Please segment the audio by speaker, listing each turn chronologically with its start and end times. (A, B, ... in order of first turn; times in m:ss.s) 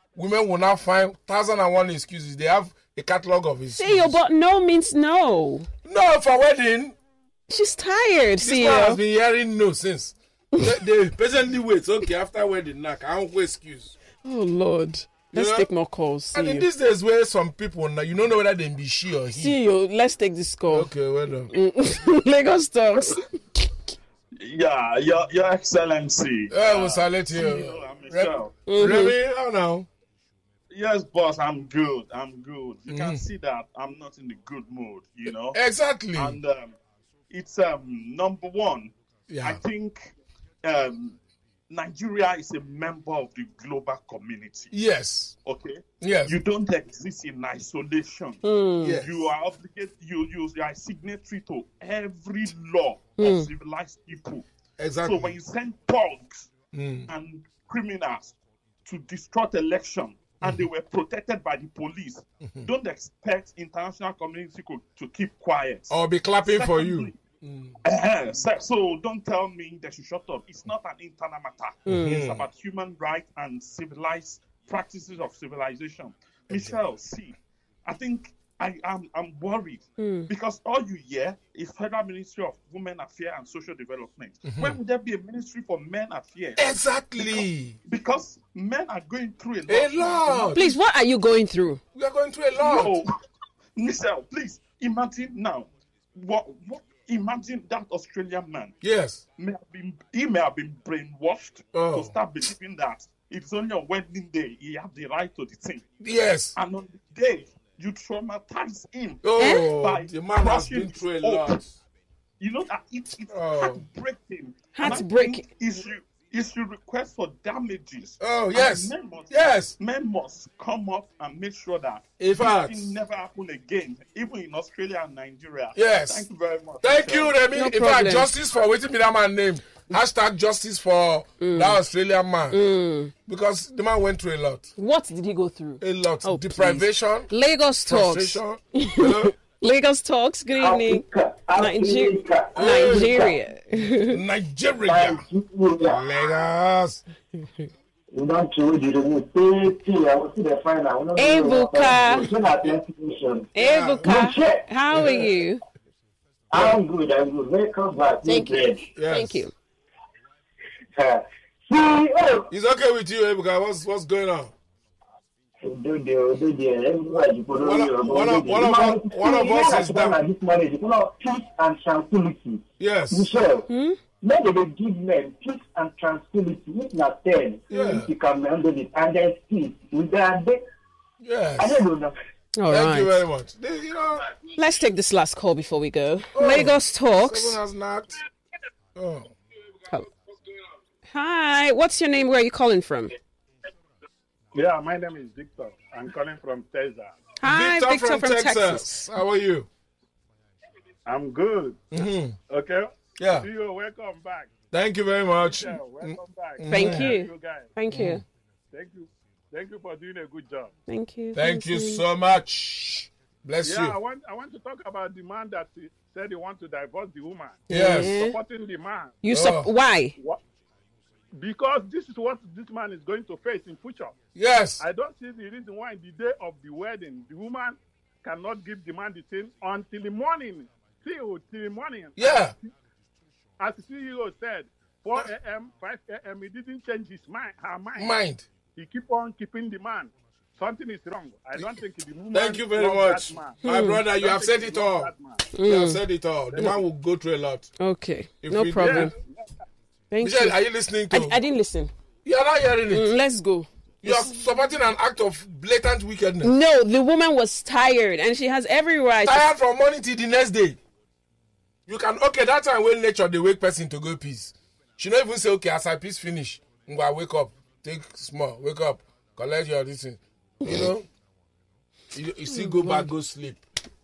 0:00.2-0:04.2 A
0:03.7-0:05.7 B
0:05.8-0:07.0 A
0:07.5-0:09.0 B
0:08.4-0:13.9 A
0:14.2-0:16.6 B
0:15.3-0:15.7 A
0:16.3-0:19.6 A
0:19.3-0:20.9 B
0:20.7-0:21.5 A
0:21.5-0:23.9 B
0:24.4-0:28.6 C
0:26.5-0:29.9 A
0:28.6-0:29.2 B
0:30.7-0:35.6 C
0:32.9-0:33.2 A
0:35.3-0:36.4 A
0:36.1-0:36.8 C
0:37.3-0:40.1 C
0:39.3-0:39.6 A
0:40.6-0:41.2 C
0:41.7-0:44.7 C
0:44.7-0:45.3 A
0:45.4-0:48.4 C
0:46.0-0:46.4 A
0:48.4-0:49.0 B
0:48.8-0:49.3 A
0:49.0-0:54.4 C
0:53.2-0:53.5 B
0:54.8-0:55.4 A
0:55.0-0:56.5 C
0:56.7-0:57.1 A
0:57.1-1:05.9 C
1:05.9-1:07.8 A
1:06.4-1:07.2 C
1:07.8-1:30.5 C
1:11.8-1:12.5 A
1:11.9-1:12.1 B
1:20.0-1:20.3 B
1:24.4-1:24.8 A
1:26.6-1:27.8 A
1:29.7-1:30.8 A
1:30.5-1:31.8 B
1:31.9-1:33.0 A
1:32.6-1:33.1 C
1:33.8-1:38.8 C
1:38.8-1:39.2 A
1:39.4-1:45.9 C
1:41.7-1:42.1 A
1:46.0-1:46.6 A
1:46.5-1:51.6 C
1:49.2-1:51.8 A
1:49.4-1:49.7 B
1:52.4-2:07.4 C
1:53.3-1:53.8 A
1:54.7-1:55.4 B
1:58.2-1:59.8 A
2:02.2-2:02.9 A
2:05.7-2:06.2 A
2:06.8-2:12.6 A
2:07.5-2:08.3 B
2:11.4-2:11.8 B
2:12.5-2:13.1 B
2:13.2-2:14.7 A
2:14.8-2:21.0 B
2:15.8-2:17.3 A
2:17.9-2:19.3 A
2:20.6-2:23.4 D
2:21.5-2:24.2 B
2:22.5-2:23.2 A
2:24.0-2:25.2 A
2:24.8-2:26.0 D
2:25.8-2:27.0 A
2:27.4-2:27.6 B
2:28.1-2:33.5 D
2:31.2-2:32.3 B
2:33.5-2:35.6 B
2:33.6-2:34.1 A
2:34.0-2:34.6 D
2:34.9-2:35.3 A
2:36.5-2:38.8 D
2:38.2-2:39.5 B
2:38.9-2:39.5 A
2:41.0-2:42.5 D
2:42.5-2:44.5 A
2:45.6-2:53.7 D
2:47.6-2:50.2 A
2:52.8-2:53.3 A
2:53.7-2:54.0 B
2:54.2-3:00.6 D
2:57.7-2:58.1 A
3:01.2-3:01.8 A
3:01.6-3:02.1 D
3:02.6-3:03.2 B
3:02.7-3:04.3 A
3:04.6-3:07.6 B
3:06.3-3:08.2 A
3:08.9-3:09.3 A
3:11.1-3:13.1 B
3:14.5-3:17.2 E
3:17.4-3:19.0 B
3:17.4-3:19.7 A
3:21.0-3:24.5 E
3:21.9-3:22.4 A
3:23.2-3:23.5 A
3:24.7-3:27.1 A
3:25.5-3:27.7 E
3:26.7-3:28.2 B
3:27.9-3:28.2 A
3:28.7-3:30.7 E
3:30.9-3:32.0 B
3:31.3-3:34.0 A
3:33.6-3:39.2 E
3:37.7-3:38.2 A
3:37.7-3:38.4 B
3:39.2-3:40.1 B
3:39.3-3:39.7 A
3:41.3-3:44.1 E
3:44.3-3:44.8 A
3:44.8-3:52.7 E
3:52.2-3:52.5 A
3:53.6-3:58.2 E
3:58.0-3:58.4 A
3:58.8-4:05.5 E
4:02.3-4:05.1 A
4:03.6-4:04.0 B
4:05.5-4:06.0 B
4:05.6-4:07.7 A
4:07.8-4:09.1 B
4:08.4-4:09.1 A
4:08.8-4:09.3 E
4:10.1-4:11.9 B
4:10.2-4:11.4 A
4:12.2-4:13.1 A
4:12.9-4:14.2 B
4:14.0-4:16.5 A
4:16.4-4:19.4 B
4:19.2-4:20.8 A
4:21.9-4:31.1 A
4:32.1-4:33.6 A
4:32.5-4:33.1 B